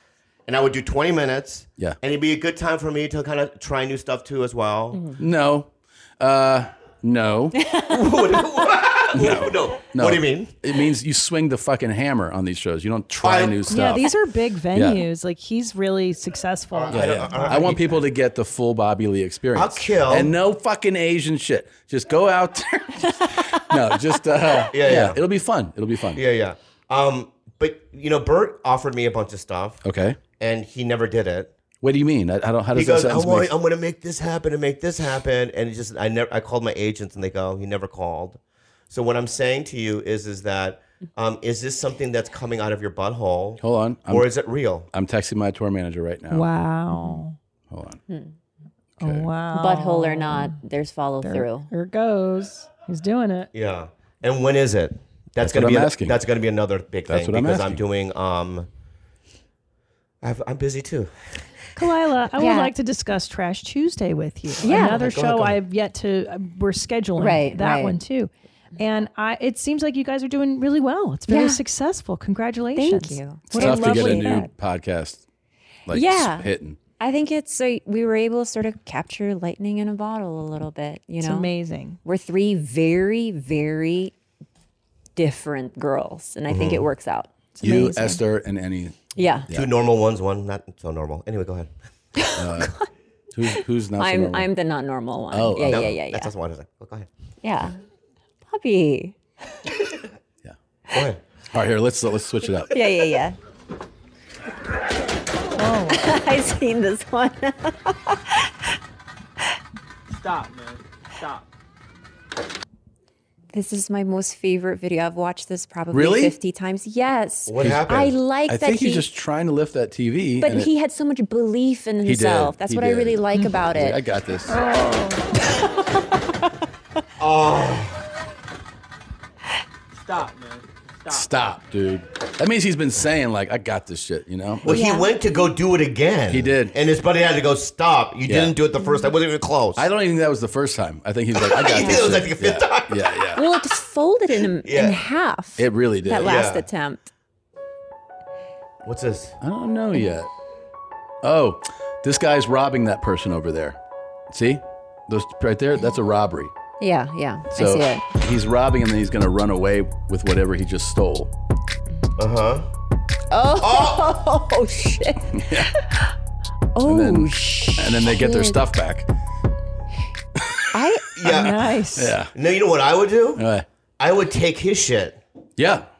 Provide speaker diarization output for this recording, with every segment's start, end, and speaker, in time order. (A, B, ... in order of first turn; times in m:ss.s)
0:00.5-0:05.1 A
0:04.9-0:05.2 B
0:05.2-0:07.6 C
0:07.5-0:08.4 B
0:07.9-0:10.5 A
0:09.1-0:14.1 C
0:13.2-0:13.6 A
0:13.7-0:17.7 D
0:14.7-0:15.0 C
0:16.7-0:18.0 A
0:16.9-0:26.2 C
0:19.5-0:20.3 A
0:24.7-0:25.2 A
0:26.1-0:29.8 A
0:29.8-0:30.2 C
0:30.4-0:31.5 A
0:31.8-0:33.6 C
0:32.7-0:38.4 A
0:38.9-0:44.9 A
0:43.6-0:44.3 C
0:44.9-0:46.5 C
0:46.3-0:47.4 D
0:46.9-0:47.2 B
0:47.7-0:48.0 C
0:48.1-0:48.3 B
0:49.0-0:49.3 C
0:49.0-0:50.6 D
0:49.5-0:51.7 B
0:51.2-0:53.5 D
0:53.5-0:58.7 A
0:55.4-0:56.2 C
0:57.1-0:57.8 C
1:00.2-1:01.1 A
1:01.8-1:14.5 D
1:02.4-1:02.7 B
1:04.6-1:05.1 B
1:04.7-1:05.6 A
1:07.2-1:08.0 B
1:11.3-1:11.6 B
1:12.8-1:14.5 B
1:13.5-1:15.2 C
1:15.9-1:16.8 C
1:15.9-1:21.5 B
1:21.2-1:22.0 D
1:22.0-1:24.1 B
1:25.2-1:27.3 B
1:26.5-1:26.8 A
1:27.6-1:28.2 D
1:27.6-1:29.7 C
1:29.2-1:29.5 B
1:29.5-1:31.7 A
1:32.2-1:32.9 B
1:32.4-1:32.8 C
1:33.3-1:34.5 C
1:34.0-1:36.3 B
1:35.3-1:35.9 C
1:35.6-1:37.1 A
1:37.4-1:37.8 B
1:38.4-1:39.2 B
1:40.9-1:41.2 A
1:41.5-1:42.8 C
1:42.7-1:43.4 B
1:45.6-1:46.1 D
1:45.9-1:48.5 B
1:50.1-1:51.5 E
1:53.5-1:59.1 B
1:55.9-1:56.4 C
1:57.5-1:58.1 A
1:57.6-2:00.7 C
2:00.4-2:04.0 B
2:02.0-2:04.6 C
2:04.5-2:05.4 D
2:07.2-2:08.0 A
2:10.0-2:11.4 E
2:11.1-2:14.7 C
2:14.6-2:19.9 A
2:14.7-2:15.4 B
2:16.3-2:16.8 C
2:18.3-2:18.6 C
2:19.8-2:23.4 C
2:21.3-2:23.0 A
2:21.7-2:22.1 B
2:23.4-2:27.0 B
2:24.6-2:25.0 A
2:25.6-2:26.4 C
2:26.2-2:26.6 A
2:28.8-2:29.4 A
2:29.4-2:30.3 C
2:31.2-2:33.8 C
2:34.3-2:36.5 C
2:36.8-2:38.0 B
2:37.5-2:41.3 C
2:42.2-2:42.7 A
2:43.3-2:46.1 B
2:43.6-2:44.0 A
2:45.3-2:45.7 C
2:46.8-2:48.6 B
2:46.8-2:49.1 C
2:50.7-2:51.1 B
2:51.1-2:51.6 A
2:51.3-2:52.2 D
2:52.0-2:52.3 C
2:52.3-2:53.4 A
2:53.4-2:53.7 C
2:54.0-2:55.2 A
2:55.6-2:55.9 C